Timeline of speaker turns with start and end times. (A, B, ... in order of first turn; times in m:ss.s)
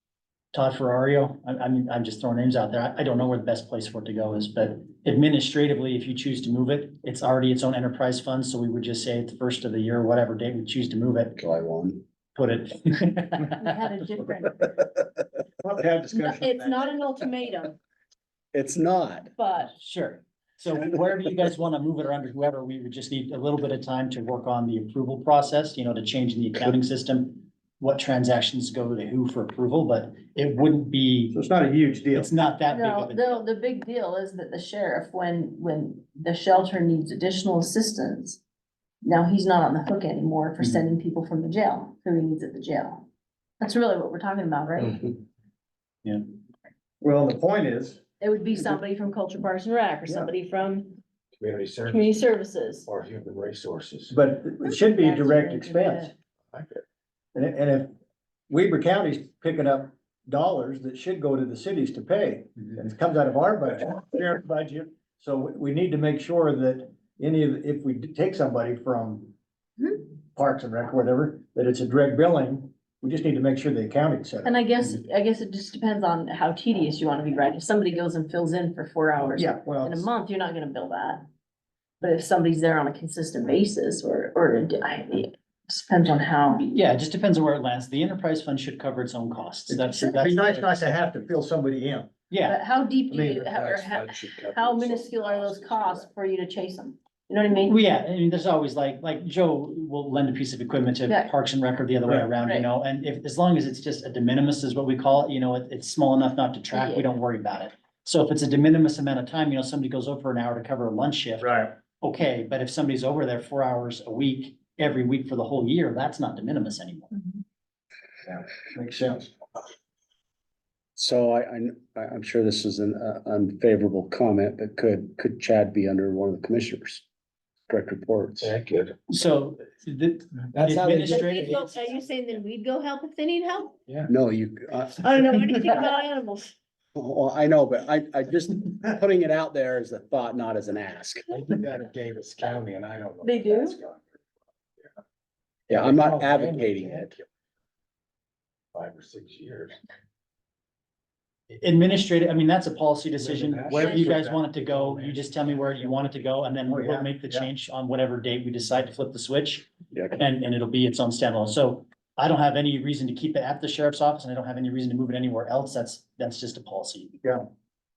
0:00.5-0:11.4 A
0:11.4-0:12.0 B
0:12.3-0:13.6 A
0:13.6-0:14.7 C
0:15.6-0:16.9 D
0:16.1-0:17.8 C
0:18.5-0:19.3 B
0:19.4-0:19.7 C
0:19.7-0:31.4 A
0:31.3-0:32.3 D
0:32.1-0:33.4 A
0:32.7-0:38.4 C
0:39.0-0:43.0 C
0:43.6-0:45.2 C
0:47.0-0:48.0 D
0:48.2-0:51.0 C
0:51.4-0:52.3 E
0:51.9-0:52.9 C
0:52.9-0:54.2 E
0:54.1-0:56.1 D
0:54.6-0:56.1 C
0:56.5-0:56.8 E
0:57.3-0:57.9 D
0:58.5-1:09.3 D
1:10.3-1:14.6 D
1:14.4-1:21.2 C
1:19.3-1:20.1 D
1:22.0-1:26.7 C
1:26.6-1:30.7 A
1:29.7-1:32.1 D
1:32.3-1:32.6 A
1:32.4-1:37.8 C
1:33.1-1:33.6 D
1:33.5-1:36.1 E
1:37.6-1:57.1 A
1:41.1-1:41.3 C
1:46.7-1:47.1 C
1:51.4-1:51.7 D
1:58.2-1:59.3 D
2:01.0-2:07.0 B
2:07.7-2:08.5 B
2:08.4-2:09.0 E
2:09.1-2:11.9 A
2:10.5-2:11.6 E
2:11.0-2:13.8 C
2:14.1-2:15.8 B
2:15.0-2:16.5 C
2:17.0-2:21.3 B
2:21.3-2:24.1 E
2:23.2-2:23.8 C
2:25.7-2:27.2 E
2:25.7-2:27.1 B
2:28.7-2:29.8 E
2:31.6-2:47.1 A
2:33.2-2:36.0 E
2:36.6-2:37.5 D